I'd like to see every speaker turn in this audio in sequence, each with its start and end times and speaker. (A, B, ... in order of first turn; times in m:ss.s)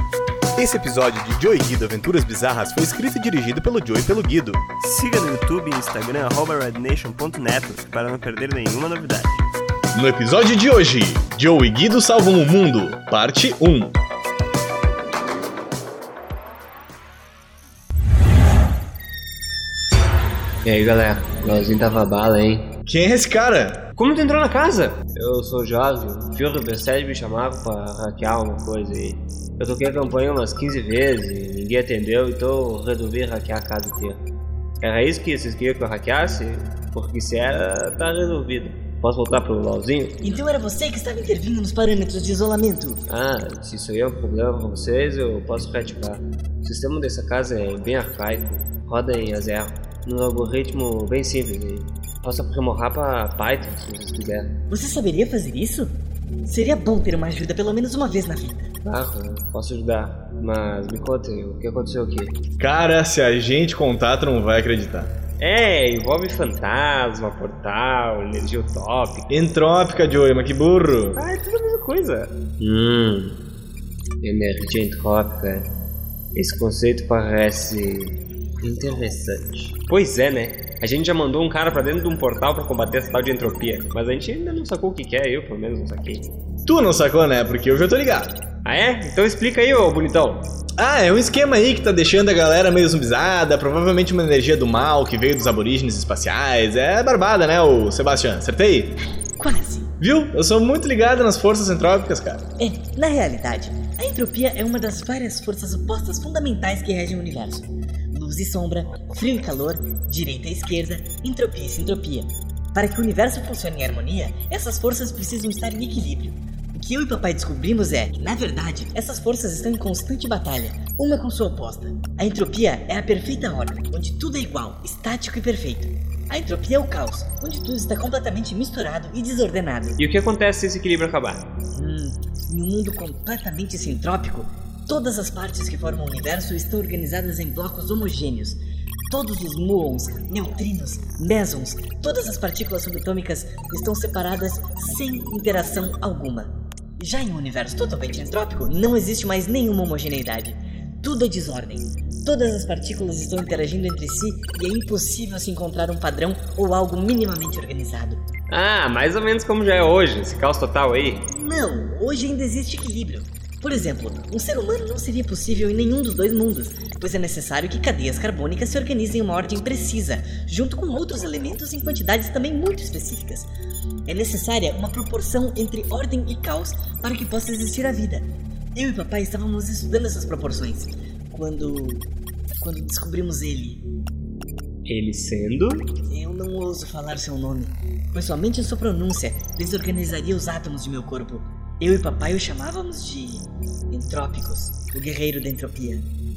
0:00.6-0:04.6 A
0:04.8-0:09.4 B
0:09.9-0:13.9 A
0:20.6-0:22.7 C
0:22.8-0:23.9 A
0:23.9-0:34.2 C
0:34.8-0:40.2 C
0:40.2-0:43.0 D
0:43.1-0:54.5 C
0:54.7-0:55.9 D
0:56.4-0:58.7 D
0:58.8-1:02.4 C
1:02.6-1:05.1 A
1:05.4-1:09.3 C
1:09.3-1:11.2 A
1:11.2-1:13.4 C
1:14.2-1:15.7 C
1:16.3-1:26.3 C
1:26.6-1:28.3 A
1:28.6-1:30.4 C
1:30.8-1:39.0 A
1:39.4-1:39.9 D
1:40.0-1:42.4 A
1:42.6-2:10.0 D
2:10.0-2:11.4 C
2:11.7-2:38.2 D
2:38.5-2:41.2 C
2:41.3-2:53.5 D
2:54.1-3:02.1 D
3:02.6-3:03.8 D
3:04.8-3:05.9 C
3:06.1-3:16.1 D